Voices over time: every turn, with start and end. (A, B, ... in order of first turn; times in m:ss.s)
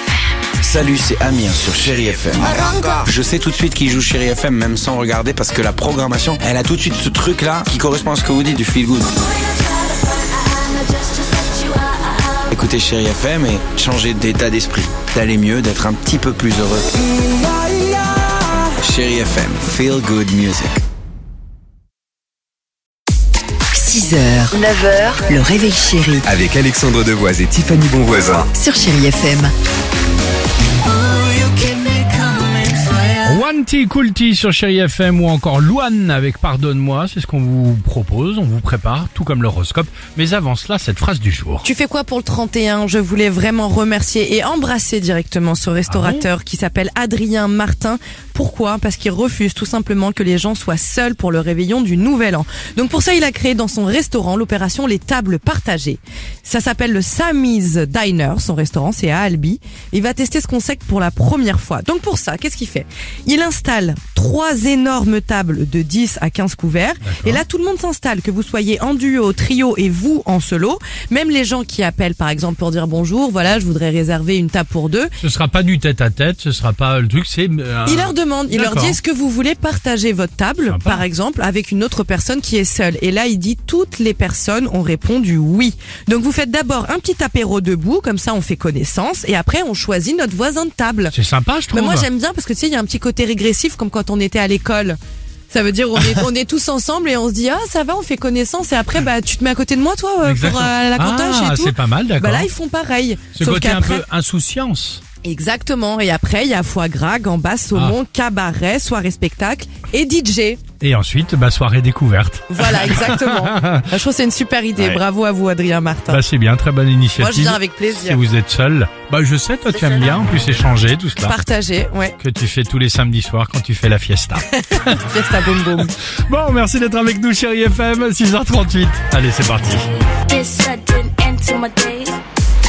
0:00.6-0:09.1 A
0:10.5-0:12.0 B
0:12.5-0:16.8 A
0:18.8-0:20.8 A
0:23.7-0:26.2 C
0:26.2-0:28.5 D
0:28.5-0:29.5 C
0:33.2-0:41.6 E
0:41.6-1:15.1 F
0:45.9-0:46.3 E
1:07.0-1:07.4 E
1:15.2-1:19.0 E
1:17.8-1:31.1 F
1:20.7-1:21.0 E
1:31.1-1:32.1 E
1:31.7-1:35.0 F
1:35.5-1:44.0 F
1:40.2-1:42.5 E
1:43.3-1:45.0 E
1:45.2-1:50.6 F
1:50.8-1:53.8 E
1:52.5-1:56.2 F
1:56.1-2:01.4 E
1:57.2-1:58.2 F
2:01.2-2:02.2 F
2:02.2-2:05.0 E
2:04.5-2:05.9 F
2:06.3-2:09.9 E
2:10.3-2:12.2 B